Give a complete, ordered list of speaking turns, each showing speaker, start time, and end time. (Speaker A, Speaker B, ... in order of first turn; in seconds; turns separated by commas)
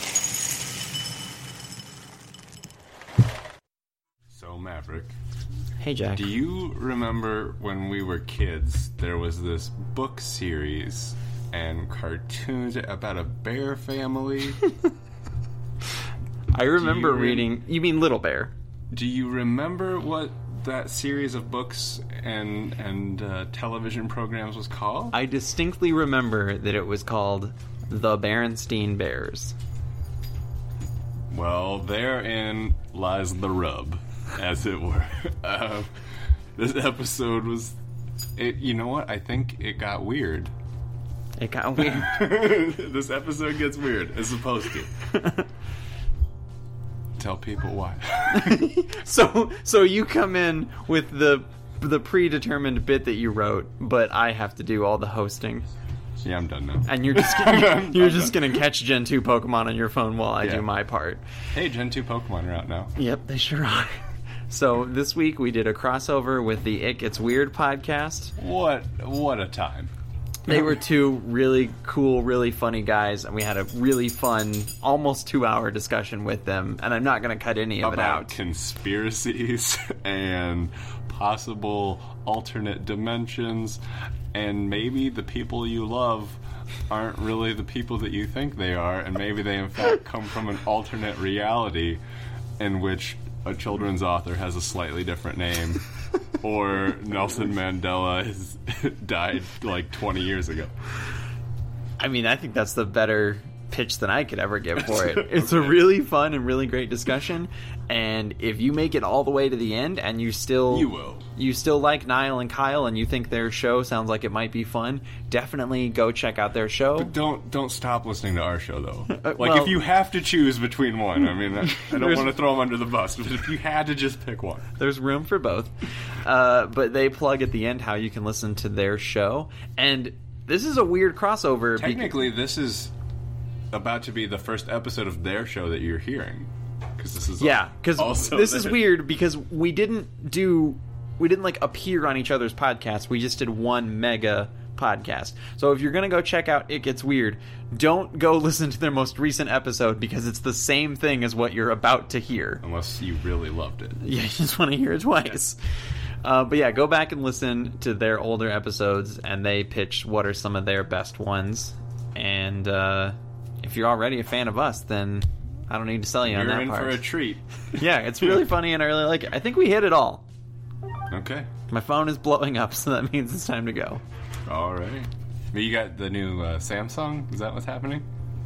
Speaker A: 4.3-5.1, Speaker B: 5.8-6.3, Speaker A: 6.1-14.6, Speaker B: 16.5-18.5, Speaker A: 16.8-17.5, Speaker A: 18.9-25.1, Speaker B: 25.1-29.6, Speaker A: 31.3-35.9, Speaker A: 36.6-37.8, Speaker A: 38.4-40.5, Speaker B: 41.4-42.2, Speaker A: 41.8-44.9, Speaker B: 45.1-45.5, Speaker A: 47.2-48.6, Speaker B: 48.3-55.7, Speaker A: 56.2-58.4, Speaker B: 56.9-61.2, Speaker A: 61.5-62.9, Speaker B: 63.0-68.3, Speaker A: 68.4-69.9, Speaker B: 70.5-78.3, Speaker A: 77.8-83.8, Speaker A: 84.3-92.0, Speaker A: 92.6-95.8, Speaker A: 96.4-100.7, Speaker B: 102.0-117.1, Speaker A: 105.1-105.8, Speaker A: 110.7-111.3, Speaker A: 117.0-124.7, Speaker B: 119.1-119.8, Speaker B: 121.7-122.3, Speaker B: 124.8-125.7, Speaker B: 126.2-132.2, Speaker A: 131.8-132.9, Speaker A: 133.7-138.9, Speaker B: 137.4-152.6, Speaker A: 152.6-154.0, Speaker B: 154.0-155.6, Speaker B: 156.2-167.1, Speaker A: 166.2-167.4, Speaker B: 167.8-170.2, Speaker A: 171.1-171.5, Speaker B: 171.7-174.0, Speaker A: 174.5-178.1